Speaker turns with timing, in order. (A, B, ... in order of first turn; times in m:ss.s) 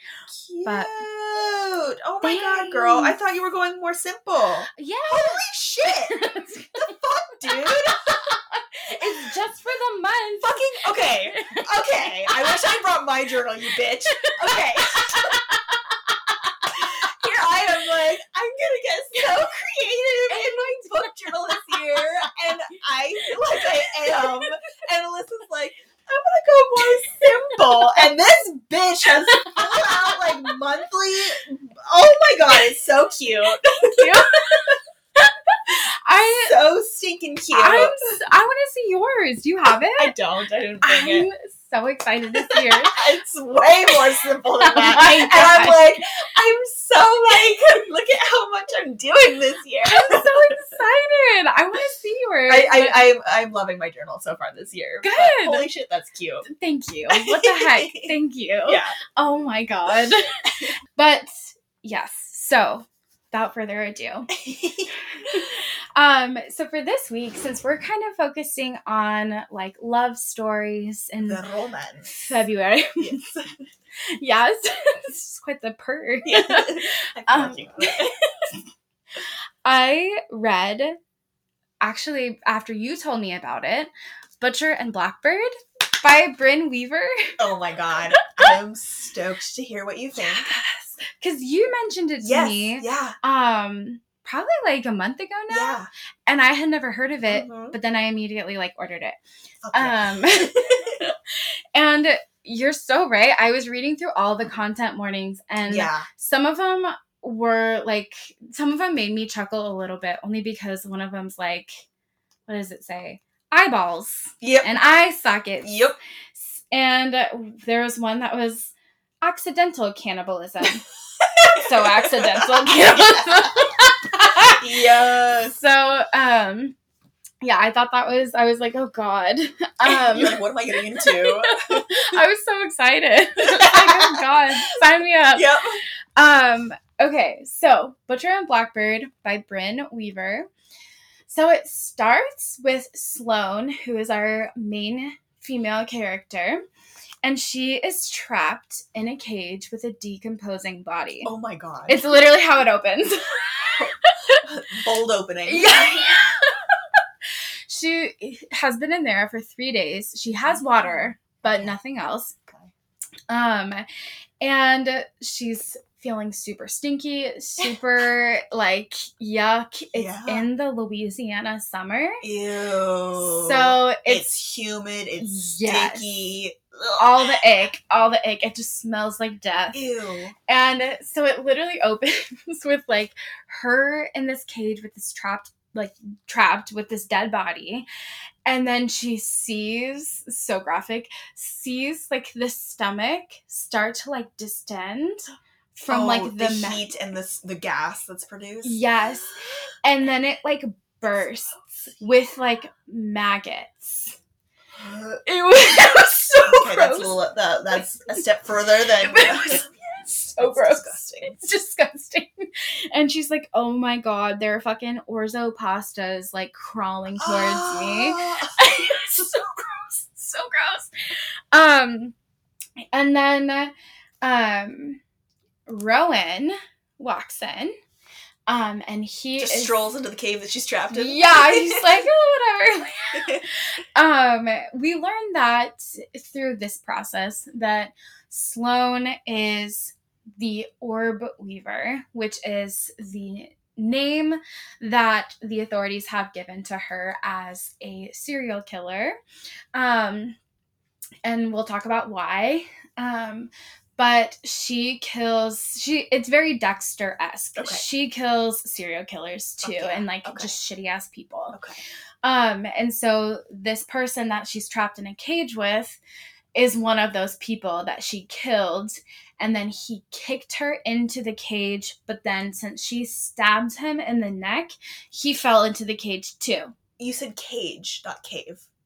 0:00.3-0:08.4 A
0:00.6-0:00.9 B
0:02.2-0:03.2 B
0:04.8-0:06.9 B
0:07.5-0:12.6 B
0:09.0-0:09.3 A
0:10.4-0:15.5 A
0:14.1-0:17.7 B
0:16.7-0:34.8 A
0:19.2-0:19.5 B
0:20.3-0:22.0 B
0:23.2-0:24.5 B
0:26.8-0:28.0 B
0:29.2-0:30.6 B
0:33.7-0:36.5 B
0:36.2-0:38.0 A
0:37.5-0:40.2 B
0:40.0-0:41.3 A
0:40.8-0:43.0 B
0:42.4-0:50.8 A
0:44.6-0:45.8 B
0:49.8-0:53.1 B
0:52.5-0:56.5 A
0:55.0-0:55.7 B
0:56.5-1:04.3 B
0:57.1-0:58.2 A
0:58.7-0:59.0 A
1:04.3-1:05.5 A
1:05.1-1:11.4 B
1:11.2-1:12.1 A
1:12.1-1:13.3 B
1:13.0-1:13.7 A
1:14.2-1:18.6 B
1:16.3-1:18.2 A
1:19.6-1:21.0 B
1:21.8-1:27.4 B
1:27.4-1:30.5 A
1:28.2-1:28.6 B
1:30.2-1:39.2 B
1:32.2-1:33.2 A
1:35.5-1:35.9 A
1:37.3-1:37.8 A
1:39.6-1:41.1 A
1:39.7-1:51.9 B
1:45.7-1:46.1 A
1:52.5-1:55.7 B
1:54.4-1:54.8 A
1:55.6-1:56.0 A
1:56.4-2:00.9 B
2:01.2-2:03.7 A
2:01.6-2:04.6 B
2:04.5-2:05.6 A
2:05.5-2:06.8 B
2:07.4-2:15.5 B
2:09.8-2:12.2 A
2:13.4-2:14.8 A
2:15.3-2:15.8 A
2:16.2-2:20.5 B
2:21.3-2:26.6 B
2:27.2-2:31.3 B
2:31.2-2:32.0 A
2:31.9-2:34.4 B
2:33.7-2:36.2 A
2:35.5-2:36.6 B
2:37.7-2:42.4 B
2:40.4-2:41.8 A
2:43.3-2:43.8 B
2:44.4-2:52.2 B
2:49.9-2:50.4 A
2:52.2-2:57.4 A
2:53.2-2:54.3 B
2:55.2-2:56.2 B
2:57.0-2:59.9 B
2:59.7-3:00.4 A
3:00.5-3:07.9 B
3:08.5-3:16.8 B
3:15.9-3:18.8 A
3:18.6-3:24.2 B
3:21.6-3:22.0 A
3:24.8-3:25.2 A
3:25.2-3:27.2 B
3:25.7-3:31.4 A
3:27.8-3:28.2 B
3:29.0-3:42.2 B
3:37.2-3:39.4 A
3:42.9-3:45.0 B
3:45.7-3:47.8 B
3:48.5-3:49.8 B
3:49.4-3:52.0 A
3:50.9-4:09.2 B
3:53.1-3:53.5 A
4:09.7-4:10.4 B
4:11.2-4:21.6 B
4:17.6-4:17.8 A
4:19.6-4:20.6 A
4:21.5-4:21.8 A
4:22.2-4:26.0 B
4:26.6-4:36.7 B
4:37.0-4:38.7 A